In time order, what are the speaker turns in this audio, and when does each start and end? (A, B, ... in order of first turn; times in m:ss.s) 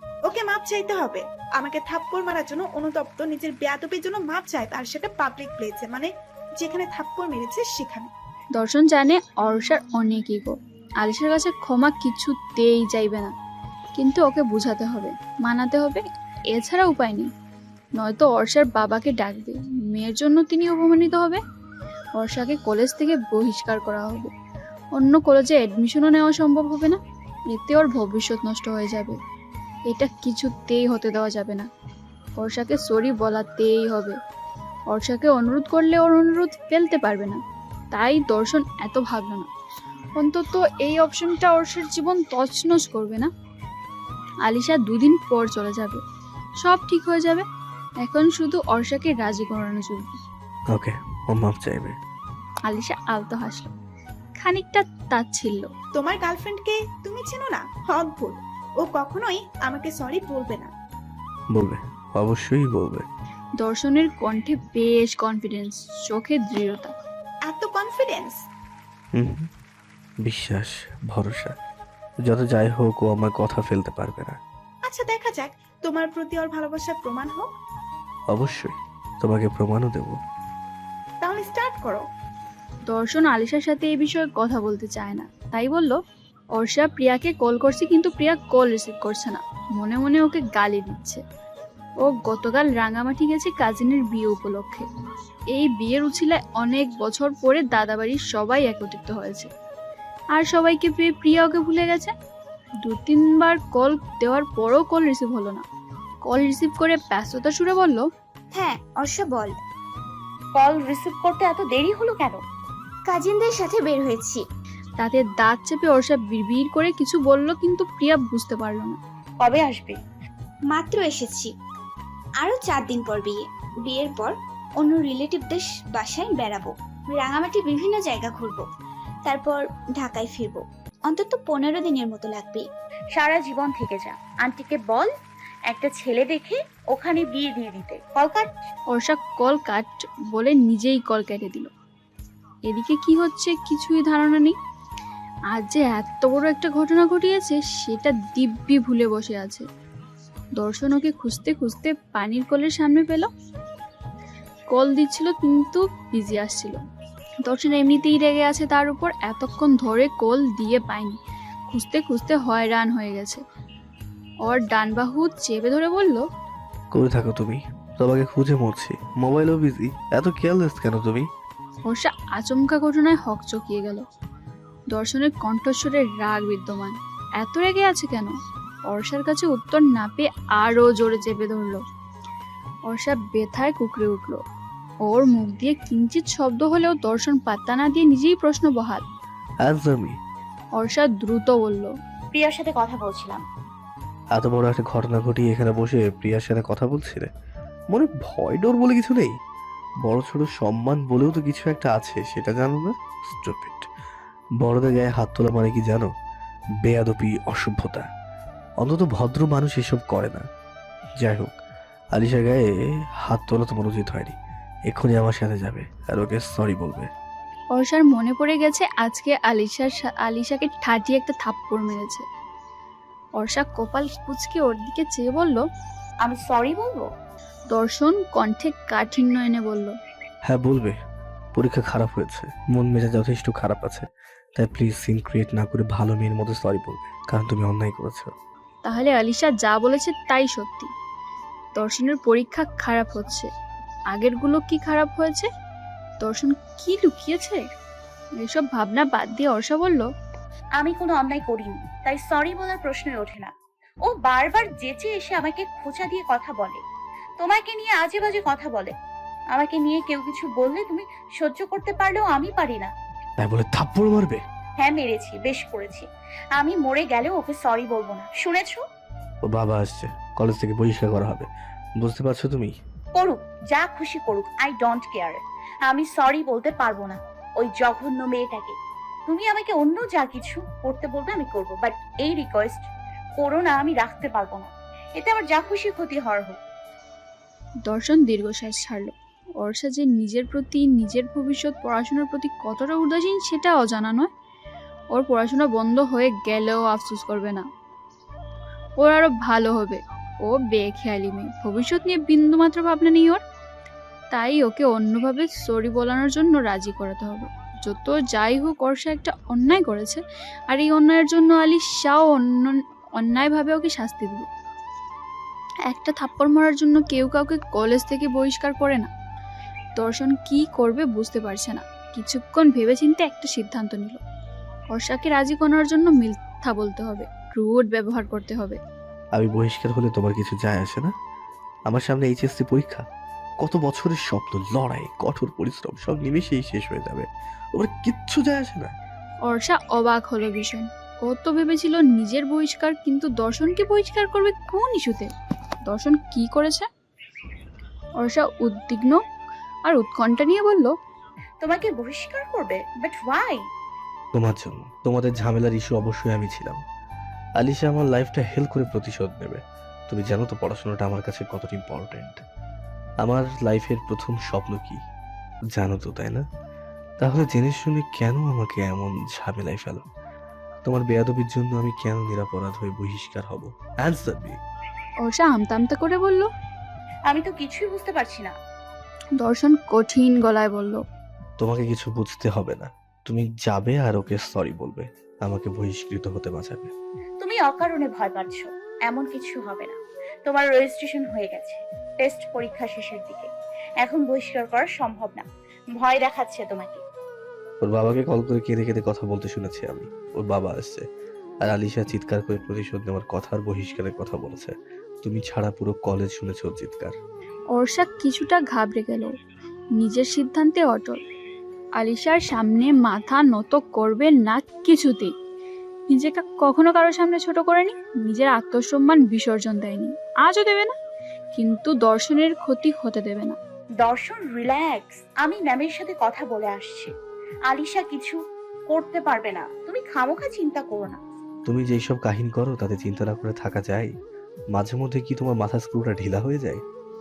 0:00.2-0:08.1 A
0:08.6-0:13.3 B
0:14.0-0:17.3 B
0:18.0-0:21.4 B
0:22.2-0:24.3 B
0:25.0-0:27.0 B
0:27.5-0:29.2 B
0:29.9-0:31.7 B
0:32.4-0:34.2 B
0:34.9-0:37.4 B
0:37.9-0:39.5 B
0:40.2-0:43.3 B
0:44.4-0:46.0 B
0:46.6-0:47.4 B
0:48.0-0:50.2 B
0:50.7-0:52.0 C
0:52.7-0:53.7 B
0:54.4-0:55.7 B
0:56.0-1:00.7 A
1:01.5-1:03.0 C
1:03.6-1:06.9 B
1:07.5-1:08.4 A
1:09.1-1:09.5 C
1:10.2-1:11.6 C
1:12.2-1:14.4 C
1:14.8-1:17.5 A
1:18.3-1:20.2 C
1:21.2-1:22.0 A
1:22.9-1:26.0 B
1:26.6-1:31.2 B
1:32.0-1:34.8 B
1:35.5-1:39.5 B
1:40.3-1:42.1 B
1:42.8-1:45.6 B
1:46.3-1:48.1 B
1:48.5-1:49.6 D
1:50.5-1:52.4 E
1:53.1-1:54.4 D
1:55.0-1:59.0 B
1:59.4-2:00.0 E
2:00.7-2:01.5 D
2:02.4-2:08.6 D
2:09.2-2:12.6 D
2:13.2-2:15.1 E
2:15.7-2:18.6 E
2:18.9-2:21.7 B
2:22.7-2:24.6 B
2:25.5-2:29.6 B
2:30.6-2:33.3 B
2:34.7-2:36.8 B
2:37.4-2:41.2 B
2:41.7-2:43.4 B
2:44.4-2:46.3 B
2:46.9-2:51.3 C
2:51.9-2:54.0 B
2:54.9-2:58.3 B
2:58.9-3:01.8 B
3:02.9-3:04.4 B
3:05.0-3:09.0 B
3:09.6-3:10.2 C
3:10.8-3:11.9 B
3:12.3-3:13.4 E
3:14.3-3:17.3 C
3:17.9-3:19.4 C
3:20.0-3:23.9 C
3:24.6-3:26.1 C
3:26.8-3:28.1 C
3:28.8-3:30.5 C
3:31.2-3:31.6 C
3:32.1-3:34.4 C
3:34.9-3:37.1 C
3:37.7-3:42.2 B
3:43.4-3:45.6 B
3:46.2-3:47.1 E
3:47.7-3:50.0 B
3:50.4-3:51.0 C
3:51.5-3:58.3 C
3:58.8-4:00.9 B
4:01.8-4:03.5 B
4:04.1-4:05.5 B
4:06.2-4:07.6 B
4:08.4-4:10.1 B
4:10.8-4:13.5 E
4:14.0-4:16.8 E
4:17.4-4:18.9 E
4:19.5-4:22.9 E
4:23.4-4:24.4 C
4:24.8-4:28.8 E
4:29.4-4:31.5 C
4:32.0-4:32.7 C
4:33.2-4:42.8 E
4:43.4-4:46.6 E
4:47.9-4:54.3 B
4:55.1-4:57.7 B
4:59.0-5:03.4 B
5:04.3-5:14.5 B
5:15.9-5:19.1 B
5:20.0-5:24.2 B
5:24.9-5:28.8 B
5:29.3-5:31.1 C
5:31.9-5:33.0 C
5:33.6-5:38.9 C
5:39.5-5:45.3 B
5:45.9-5:46.9 B
5:48.2-5:49.2 B
5:49.9-5:50.9 B
5:51.6-5:53.6 E
5:54.3-5:56.8 C
5:57.6-6:02.4 C
6:03.2-6:05.0 C
6:05.7-6:06.4 C
6:07.2-6:10.0 C
6:10.8-6:14.6 C
6:15.2-6:16.5 B
6:17.3-6:18.5 E
6:19.4-6:21.0 B
6:21.6-6:26.9 C
6:27.4-6:33.5 E
6:34.0-6:35.4 E
6:36.0-6:37.0 E
6:37.8-6:41.0 C
6:41.6-6:47.2 C
6:47.7-6:49.3 B
6:50.0-6:51.2 B
6:52.0-6:55.3 B
6:56.1-7:00.9 B
7:01.5-7:03.6 B
7:04.0-7:07.1 E
7:07.7-7:11.2 E
7:11.6-7:14.1 C
7:14.7-7:16.8 C